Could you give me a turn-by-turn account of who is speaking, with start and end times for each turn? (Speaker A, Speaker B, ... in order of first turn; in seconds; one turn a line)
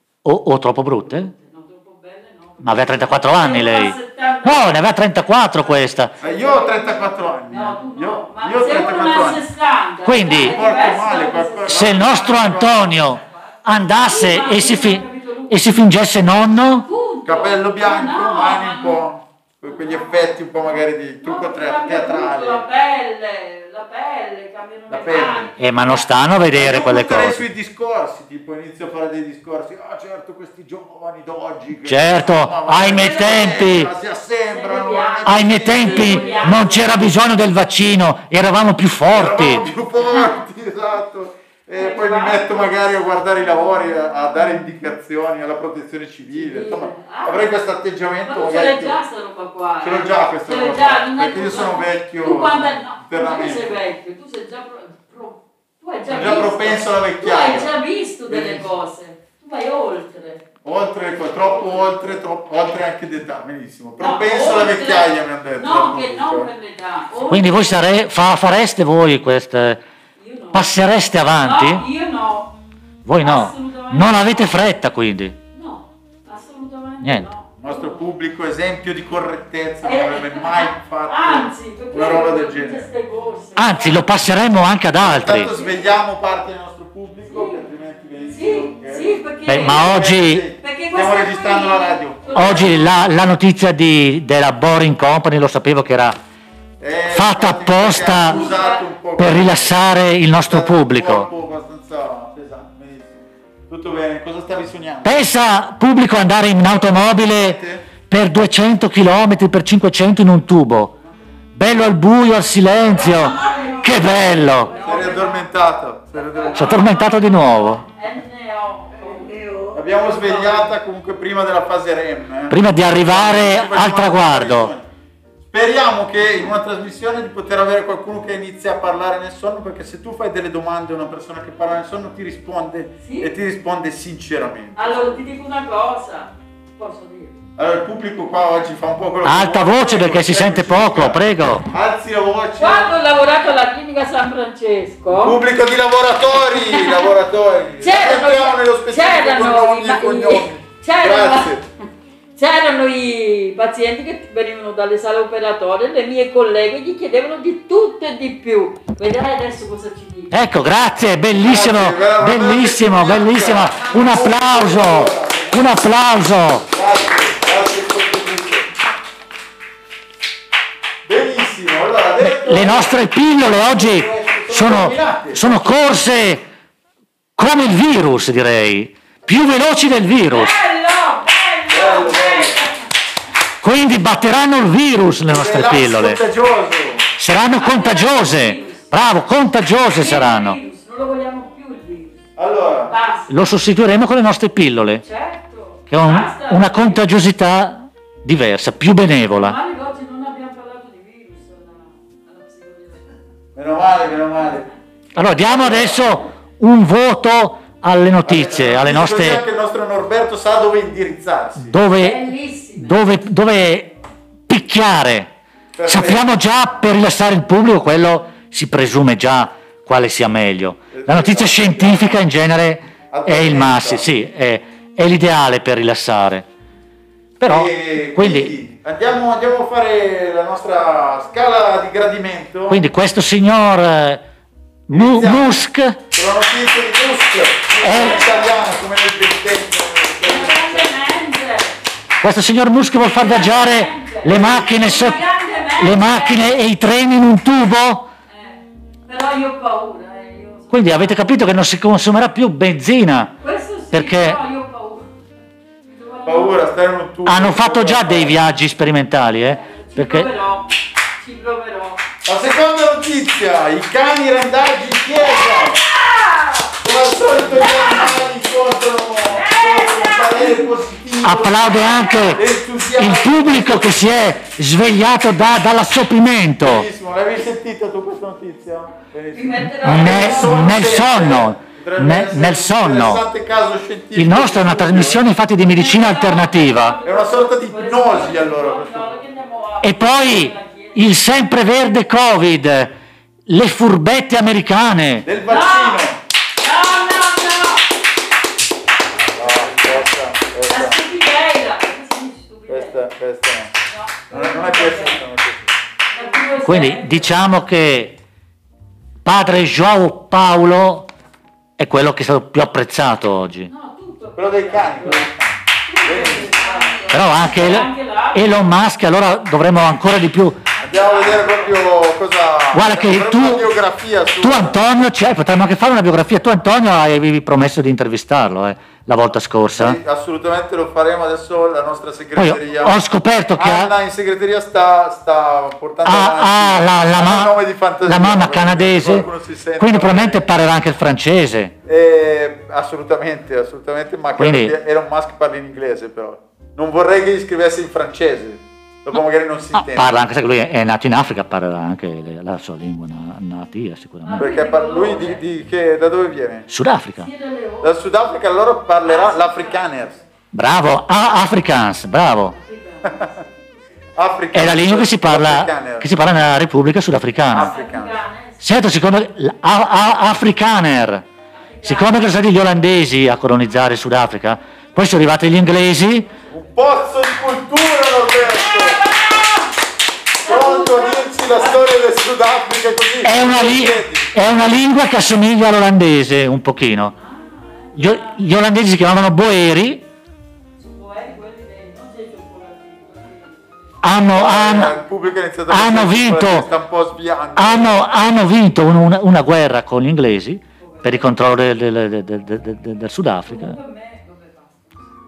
Speaker A: 0.2-1.3
Speaker B: 1.1-4.9
Speaker A: 2.6-6.1
Speaker B: 6.1-12.2
Speaker C: 6.2-9.4
Speaker A: 10.0-10.6
Speaker C: 10.3-12.9
Speaker A: 11.7-16.9
Speaker B: 14.0-15.6
Speaker B: 16.8-19.0
Speaker C: 17.2-22.6
Speaker B: 19.6-26.1
Speaker C: 24.9-25.5
Speaker A: 25.6-27.4
Speaker C: 26.5-36.9
Speaker A: 31.8-33.9
Speaker B: 32.9-33.6
Speaker B: 34.5-36.9
Speaker A: 35.2-39.7
Speaker C: 39.1-49.0
Speaker B: 40.1-40.4
Speaker B: 41.7-42.6
Speaker B: 46.3-47.5
Speaker B: 48.2-60.4
Speaker C: 49.8-53.8
Speaker C: 56.1-57.7
Speaker C: 58.3-58.7
Speaker C: 60.6-66.5
Speaker B: 64.0-67.8
Speaker A: 67.3-69.8
Speaker B: 70.2-70.7
Speaker A: 70.5-71.8
Speaker B: 71.4-72.5
Speaker A: 73.0-75.3
Speaker B: 73.2-74.5
Speaker B: 75.5-78.0
Speaker A: 77.0-77.3
Speaker C: 77.6-82.9
Speaker B: 79.8-84.1
Speaker A: 83.5-85.5
Speaker C: 85.0-92.6
Speaker B: 87.3-87.6
Speaker B: 88.3-92.9
Speaker A: 89.5-90.4
Speaker A: 92.3-96.2
Speaker C: 96.8-99.8
Speaker A: 97.1-98.5
Speaker B: 98.1-98.8
Speaker A: 99.2-101.3
Speaker C: 100.5-105.3
Speaker A: 105.0-110.9
Speaker C: 107.0-107.9
Speaker A: 111.5-114.7
Speaker B: 112.9-115.5
Speaker C: 114.7-116.8
Speaker B: 116.1-120.7
Speaker A: 116.5-117.8
Speaker C: 119.7-124.9
Speaker A: 122.5-124.7
Speaker C: 125.5-134.9
Speaker B: 133.0-133.3
Speaker B: 134.8-137.4
Speaker C: 137.6-143.0
Speaker A: 139.2-141.7
Speaker B: 142.6-145.4
Speaker C: 145.1-151.6
Speaker B: 146.6-147.1
Speaker B: 147.8-151.6
Speaker B: 152.3-160.4
Speaker A: 160.3-166.6
Speaker C: 161.4-165.6
Speaker C: 166.7-168.7
Speaker C: 171.1-175.7
Speaker A: 172.2-176.4
Speaker A: 177.4-180.5
Speaker B: 180.3-182.8
Speaker C: 181.7-182.6
Speaker A: 183.6-186.2
Speaker C: 185.3-187.1
Speaker A: 187.2-190.6
Speaker B: 187.6-188.9
Speaker B: 190.0-192.2
Speaker C: 192.4-192.9
Speaker B: 192.9-193.3
Speaker A: 193.3-195.0
Speaker B: 195.0-197.0
Speaker A: 195.9-199.6
Speaker B: 199.3-203.1
Speaker C: 203.5-204.7
Speaker A: 205.2-209.4
Speaker C: 205.4-206.3
Speaker C: 208.2-211.7
Speaker A: 211.6-213.9
Speaker B: 211.9-213.0
Speaker A: 214.5-215.3
Speaker C: 215.7-216.2
Speaker A: 215.8-226.4
Speaker C: 220.9-222.2
Speaker C: 223.1-224.1
Speaker A: 227.4-228.5
Speaker C: 227.4-232.8
Speaker A: 232.7-234.2
Speaker A: 234.9-236.0
Speaker C: 234.9-235.6
Speaker C: 236.1-241.0
Speaker A: 237.8-238.2
Speaker B: 240.2-241.8
Speaker A: 242.2-245.2
Speaker B: 243.0-246.6
Speaker C: 244.3-244.7
Speaker A: 245.8-248.1
Speaker B: 248.3-251.3
Speaker A: 250.7-253.3
Speaker B: 253.4-255.1
Speaker A: 253.9-254.4
Speaker B: 255.8-256.7
Speaker C: 256.2-258.4
Speaker A: 257.2-260.3
Speaker B: 259.4-262.0
Speaker C: 262.2-265.8
Speaker B: 265.4-266.7
Speaker C: 266.8-274.1
Speaker B: 267.6-268.1
Speaker B: 269.2-270.7
Speaker A: 271.2-272.4
Speaker A: 272.9-276.9
Speaker C: 276.6-285.2
Speaker B: 279.3-280.8
Speaker A: 279.8-283.2
Speaker A: 284.1-287.0
Speaker B: 285.6-291.1
Speaker C: 287.0-289.2
Speaker A: 289.8-292.9
Speaker A: 293.5-295.2
Speaker C: 295.2-296.2
Speaker B: 295.5-296.0
Speaker B: 296.6-297.9
Speaker B: 299.2-300.1
Speaker C: 299.3-301.0
Speaker B: 300.7-303.1
Speaker C: 302.7-303.7
Speaker B: 303.8-305.2
Speaker C: 304.3-305.7
Speaker B: 306.1-307.3
Speaker A: 306.6-308.1
Speaker A: 309.2-311.1
Speaker A: 311.8-313.7
Speaker B: 313.7-315.3
Speaker C: 314.4-317.1
Speaker B: 315.9-318.6
Speaker A: 317.1-320.6
Speaker B: 320.8-321.7
Speaker C: 320.8-324.8
Speaker A: 322.7-323.7
Speaker A: 324.4-330.0
Speaker C: 329.7-333.0
Speaker A: 332.4-333.9
Speaker C: 333.6-340.4
Speaker A: 336.0-337.5
Speaker A: 338.1-339.3
Speaker A: 339.8-341.7
Speaker C: 341.9-350.2
Speaker A: 344.4-344.7
Speaker A: 349.7-354.5
Speaker B: 354.2-355.4
Speaker C: 354.4-356.7
Speaker A: 356.7-357.3
Speaker B: 357.2-357.9
Speaker C: 357.8-360.2
Speaker B: 359.0-360.2
Speaker A: 360.5-362.5
Speaker B: 362.5-363.9
Speaker C: 364.1-366.1
Speaker A: 364.5-367.7
Speaker C: 367.5-368.2
Speaker B: 367.6-368.6
Speaker A: 368.6-371.2
Speaker B: 371.5-372.2
Speaker A: 371.8-376.3
Speaker B: 376.2-376.8
Speaker C: 376.5-379.1
Speaker B: 378.6-379.8
Speaker B: 380.4-381.8
Speaker C: 380.4-384.3
Speaker A: 383.2-387.1
Speaker B: 387.1-388.4
Speaker A: 387.9-390.0
Speaker B: 390.8-394.0
Speaker A: 394.0-394.9
Speaker C: 394.3-398.1
Speaker A: 395.7-396.7
Speaker A: 397.6-403.8
Speaker B: 400.8-401.3
Speaker B: 403.5-404.9